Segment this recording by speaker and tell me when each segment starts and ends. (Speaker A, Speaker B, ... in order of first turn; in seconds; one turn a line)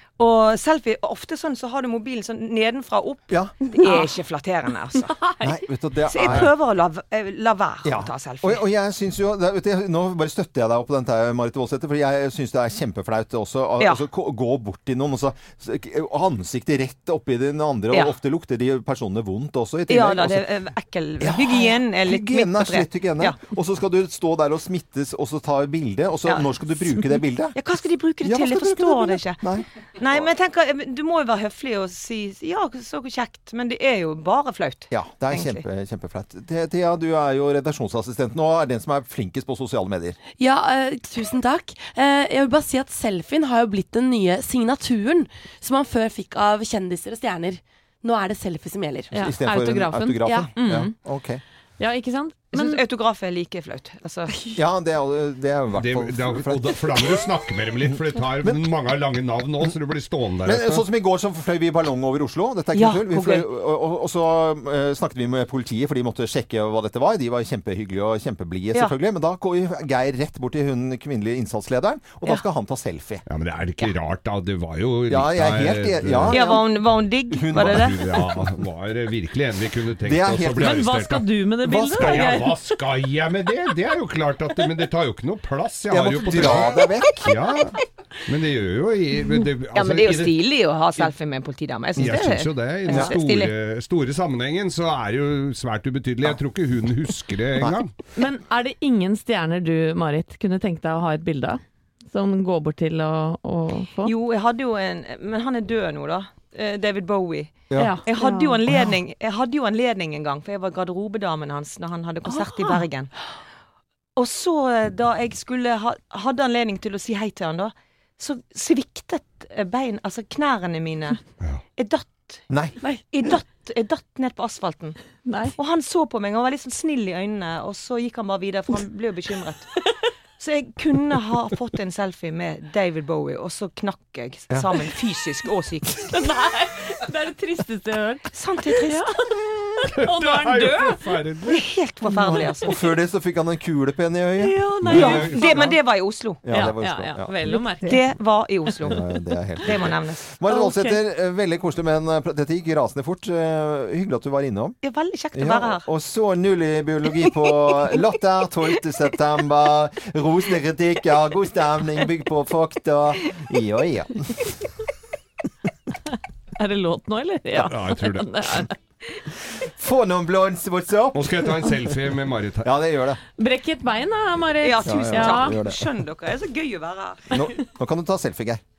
Speaker A: 0.2-5.2
Speaker B: 5.1-5.6
Speaker C: 5.4-6.5
Speaker A: 6.1-8.6
Speaker C: 7.8-20.5
Speaker A: 19.9-23.4
Speaker C: 21.2-27.6
Speaker A: 26.2-26.5
Speaker A: 27.5-29.4
Speaker C: 28.2-30.3
Speaker A: 30.0-35.6
Speaker C: 34.9-40.2
Speaker D: 40.4-49.1
Speaker B: 49.1-50.9
Speaker C: 49.1-51.4
Speaker B: 51.8-52.8
Speaker A: 52.5-54.3
Speaker C: 54.5-57.2
Speaker E: 55.7-60.8
Speaker C: 57.9-58.6
Speaker C: 60.4-73.2
Speaker A: 62.7-63.5
Speaker E: 73.3-76.4
Speaker C: 75.1-76.7
Speaker A: 76.3-78.0
Speaker C: 77.3-78.4
Speaker E: 77.5-81.3
Speaker C: 80.0-80.8
Speaker B: 80.6-82.6
Speaker C: 81.6-82.4
Speaker E: 82.0-90.4
Speaker C: 85.9-87.3
Speaker A: 89.7-93.5
Speaker E: 92.0-97.9
Speaker C: 92.9-93.1
Speaker B: 98.1-104.1
Speaker A: 104.0-113.1
Speaker B: 107.7-108.8
Speaker B: 112.3-112.8
Speaker A: 114.2-121.2
Speaker A: 121.8-122.4
Speaker A: 123.1-125.0
Speaker B: 125.2-125.5
Speaker A: 125.5-129.7
Speaker A: 130.4-136.0
Speaker B: 136.0-141.1
Speaker A: 138.3-139.1
Speaker E: 140.0-141.6
Speaker A: 141.5-142.8
Speaker B: 142.1-142.7
Speaker C: 142.1-145.1
Speaker B: 144.4-145.6
Speaker E: 144.8-145.7
Speaker A: 144.8-146.4
Speaker C: 146.4-147.3
Speaker B: 146.5-148.1
Speaker A: 147.8-149.0
Speaker C: 148.8-154.8
Speaker A: 149.6-150.3
Speaker B: 150.4-151.0
Speaker A: 154.8-155.9
Speaker C: 155.3-164.4
Speaker B: 166.6-168.7
Speaker E: 167.7-168.4
Speaker C: 169.8-171.8
Speaker E: 171.1-172.7
Speaker C: 172.6-173.2
Speaker B: 173.4-175.6
Speaker A: 174.6-177.3
Speaker C: 174.8-175.8
Speaker C: 177.3-178.6